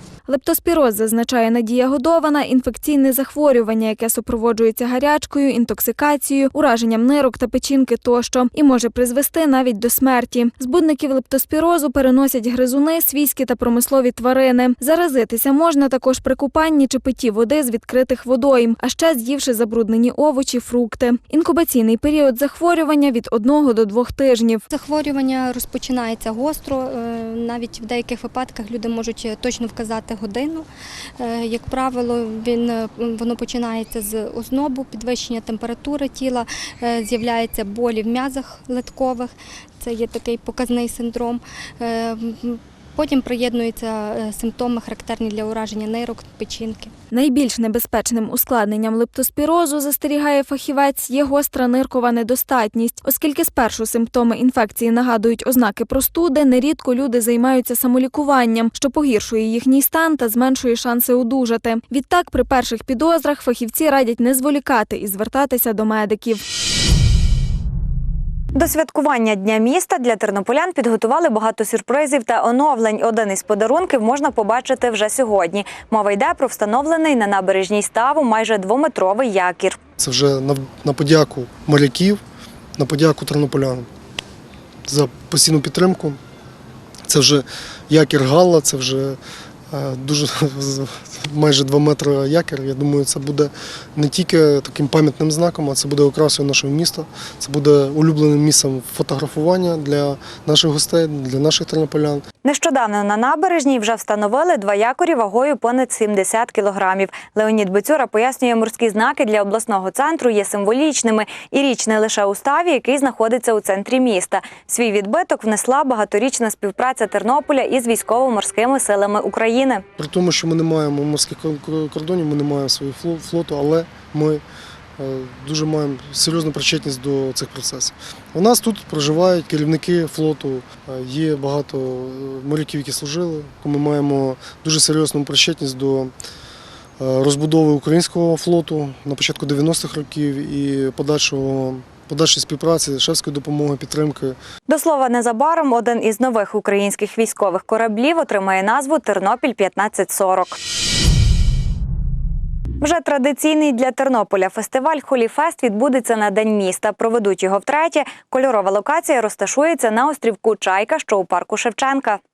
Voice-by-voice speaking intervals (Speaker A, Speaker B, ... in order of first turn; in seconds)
Speaker A: 0.3-24.6, 47.1-66.4
Speaker B: 24.7-46.9
Speaker C: 68.5-79.8, 102.5-119.8, 144.7-150.6, 152.8-162.2
Speaker D: 80.0-82.2, 82.8-83.9, 84.9-86.2, 87.1-89.2, 89.7-102.2, 120.0-124.4, 125.0-136.1, 137.0-144.4